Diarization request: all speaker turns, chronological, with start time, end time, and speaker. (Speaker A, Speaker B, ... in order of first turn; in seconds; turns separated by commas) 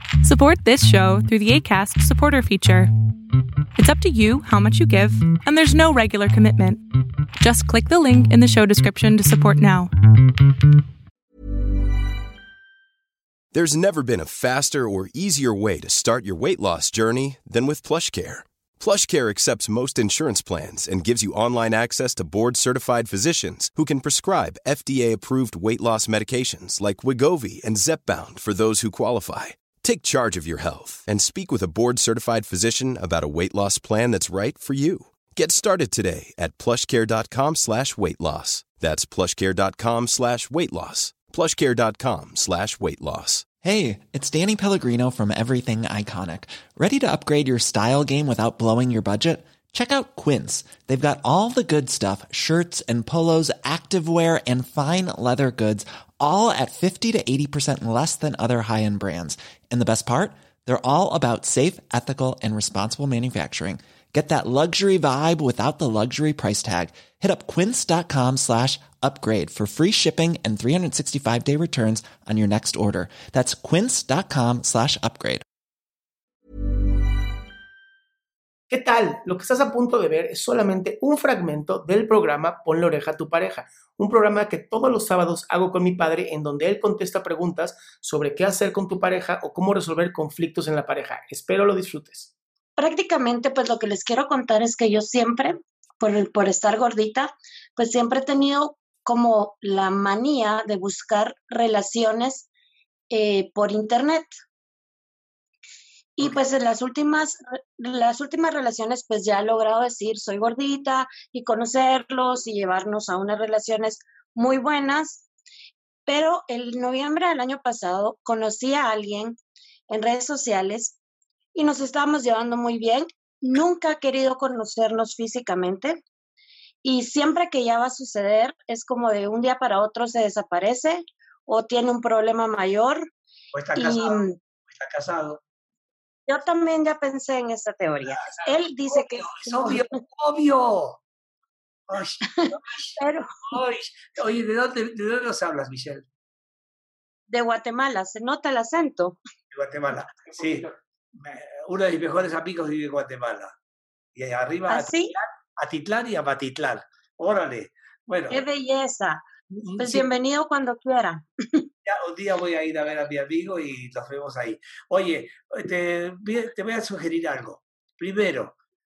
Speaker A: 0.2-2.9, Speaker A: 3.8-6.8, Speaker A: 7.4-9.9, Speaker B: 13.5-43.4, Speaker C: 43.6-75.4, Speaker D: 78.7-92.3, Speaker E: 92.8-102.5, Speaker E: 103.1-104.3, Speaker E: 106.2-115.2, Speaker E: 116.0-119.4, Speaker E: 119.9-121.0, Speaker E: 121.5-126.0, Speaker E: 126.8-133.0, Speaker F: 133.5-135.4, Speaker E: 133.8-134.4, Speaker E: 136.3-139.8, Speaker F: 138.1-141.0, Speaker F: 141.9-143.0, Speaker E: 142.4-143.6, Speaker F: 143.5-146.1, Speaker E: 147.3-149.2, Speaker F: 149.5-153.5, Speaker F: 154.1-158.4, Speaker E: 154.7-155.1, Speaker E: 158.3-159.2, Speaker F: 159.5-160.1, Speaker E: 159.8-161.6, Speaker F: 161.8-168.5